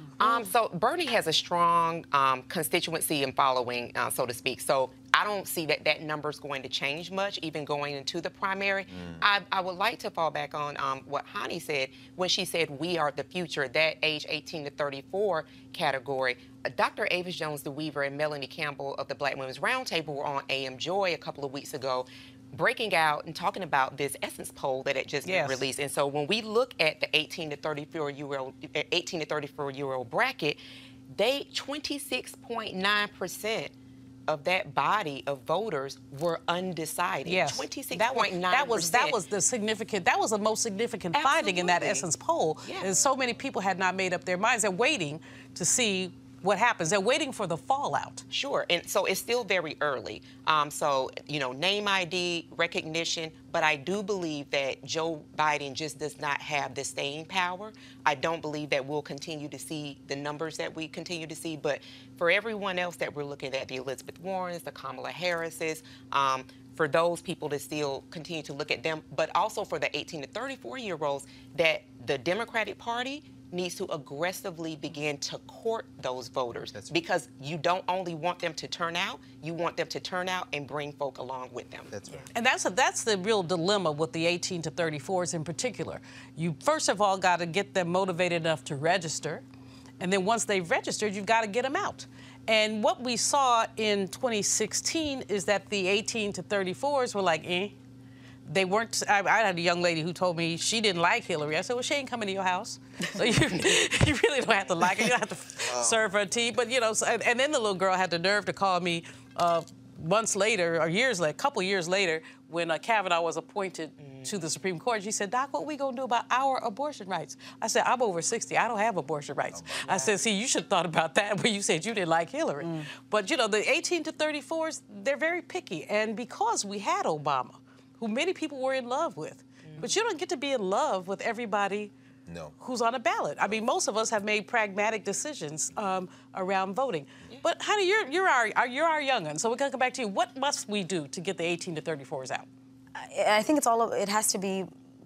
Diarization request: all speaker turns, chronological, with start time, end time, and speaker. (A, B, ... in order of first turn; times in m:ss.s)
0:00.2-0:33.7 A
0:08.9-0:09.2 B
0:25.2-0:25.6 C
0:34.3-0:39.2 A
0:37.2-0:48.2 C
0:41.1-0:42.0 A
0:48.3-1:21.9 A
1:21.9-1:22.3 B
1:22.3-1:29.4 C
1:30.0-1:37.8 C
1:38.5-2:11.9 C
1:45.6-1:46.1 B
1:54.0-1:54.3 A
1:59.5-1:59.9 B
1:59.8-2:00.1 A
2:02.6-2:02.9 D
2:12.2-2:12.5 B
2:12.6-2:22.5 C
2:22.9-2:24.7 D